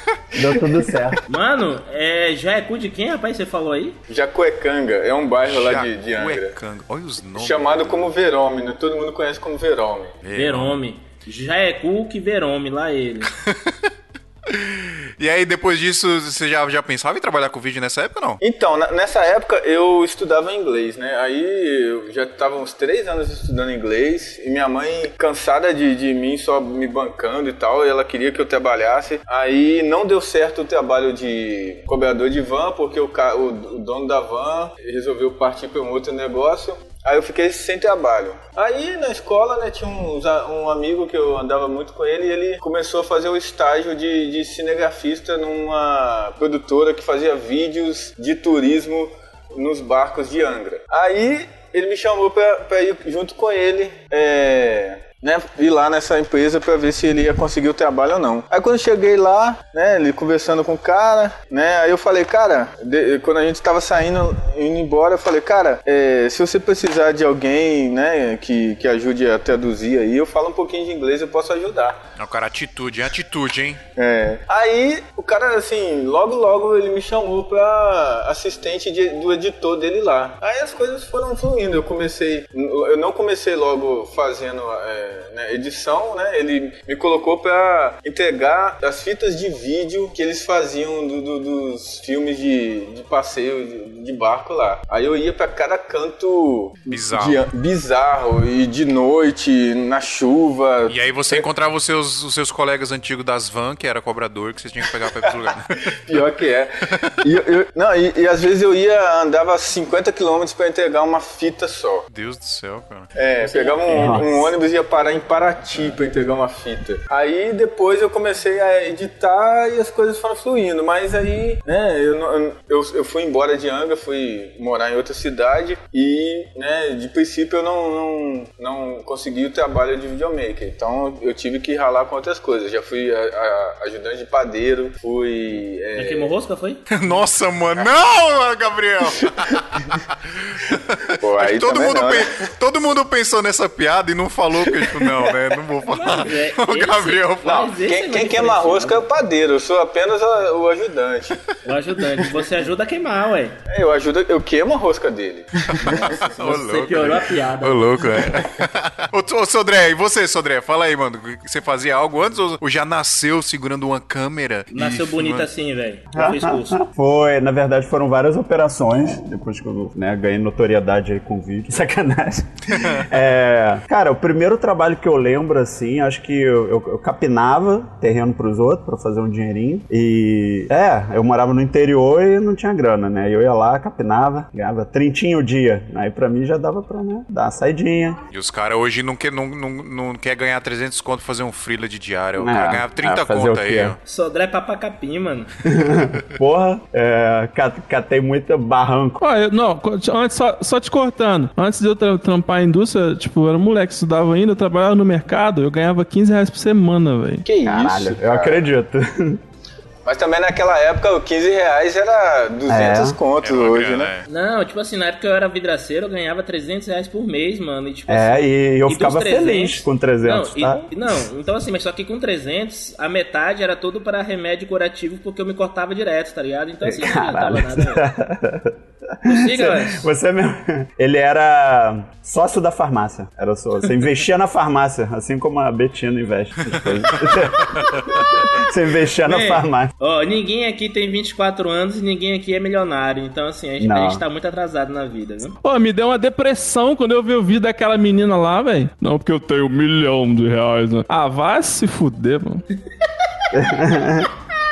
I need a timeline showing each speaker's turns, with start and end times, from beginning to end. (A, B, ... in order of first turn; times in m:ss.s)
0:00.3-0:01.2 A
0:01.3-0:04.0 B
0:04.1-0:06.5 C
0:05.4-0:08.1 D
0:07.4-0:10.2 C
0:10.2-0:10.8 D
0:10.3-0:13.3 B
0:13.4-0:13.9 D
0:14.5-0:18.4 D
0:18.4-1:12.0 C
1:12.2-1:13.8 D
1:14.0-1:41.4 C
1:36.9-1:37.4 D
1:40.9-1:45.6 D
1:45.0-1:45.5 C
1:46.0-1:46.7 C
1:47.2-1:52.1 C
1:52.1-1:53.1 D
1:53.1-2:16.3 C
1:53.4-1:54.5 B
1:53.9-1:54.2 A
2:15.9-2:16.8 B
2:16.9-2:27.7 D
2:21.2-2:22.3 C
2:24.6-2:25.3 C
2:25.9-2:29.0 B
2:27.7-2:31.4 C
2:31.6-2:33.6 B
2:32.2-2:32.4 C
2:33.7-2:36.2 C
2:35.7-2:45.5 D
2:35.8-2:38.0 B
2:38.2-2:38.4 C
2:44.7-2:46.8 B
2:46.1-3:08.2 A
3:08.3-3:14.0 D
3:12.4-3:14.0 A
3:14.0-3:15.5 B
3:15.7-3:19.2 A
3:19.2-3:27.4 E
3:27.4-3:28.6 C
3:27.6-3:29.4 A
3:30.0-3:34.1 C
3:32.7-3:33.2 A
3:33.4-3:34.2 D
3:34.3-3:48.0 B
3:38.1-3:41.0 A
3:46.8-3:57.8 A
3:49.2-3:50.1 B
3:57.6-3:58.5 B
3:58.5-3:59.9 A
3:59.2-4:05.6 B
4:03.8-4:04.2 A
4:05.6-4:12.6 E
4:13.0-4:14.2 B
4:13.5-4:14.3 A